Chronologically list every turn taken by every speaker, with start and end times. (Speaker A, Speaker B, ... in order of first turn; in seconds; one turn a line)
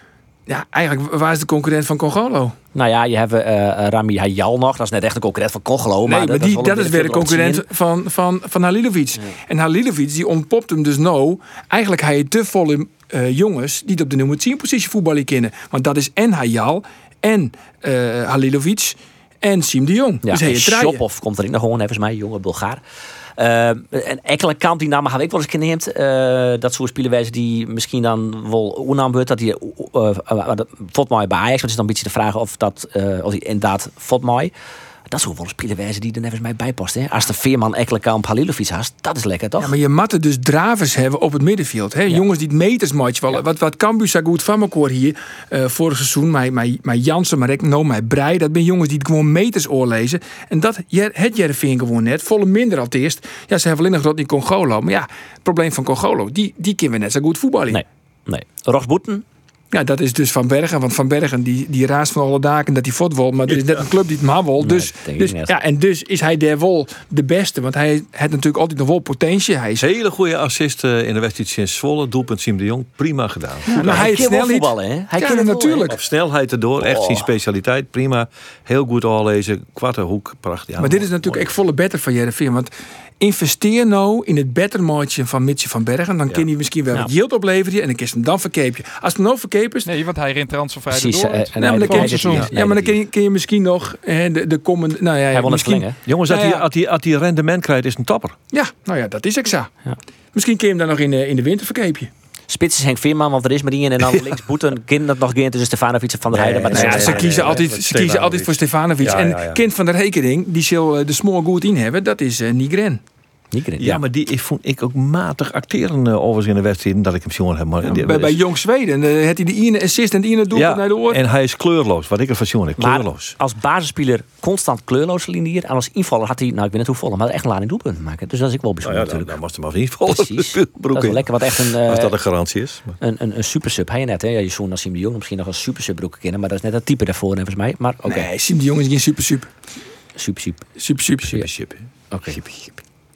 Speaker A: 0.5-2.5
Speaker B: 2.7-7.7
Speaker A: 6.0-21.0
Speaker B: 20.2-22.8
Speaker B: 23.4-34.5
Speaker B: 35.1-39.7
Speaker A: 39.6-57.8
Speaker B: 57.7-59.2
Speaker A: 59.7-69.9
Speaker B: 64.6-65.5
Speaker C: 69.8-74.2
Speaker A: 73.7-76.0
Speaker B: 73.7-75.9
Speaker C: 75.9-81.5
Speaker B: 76.8-77.3
Speaker A: 80.8-89.9
Speaker D: 89.8-92.5
Speaker B: 90.9-93.0
Speaker A: 91.5-96.6
Speaker B: 95.3-96.0
Speaker C: 96.0-98.3
Speaker A: 98.5-99.7
Speaker A: 100.3-102.1
Speaker B: 102.5-107.6
Speaker C: 106.3-109.6
Speaker A: 106.7-113.0
Speaker B: 113.5-114.0
Speaker C: 113.8-118.4
Speaker A: 117.8-121.2
Speaker C: 120.5-123.3
Speaker B: 122.8-129.3
Speaker C: 128.8-132.9
Speaker B: 130.0-132.1
Speaker B: 133.0-138.3
Speaker A: 138.0-139.5
Speaker B: 140.2-140.7
Speaker A: 140.8-141.3
Speaker C: 141.3-142.6
Speaker B: 142.1-142.4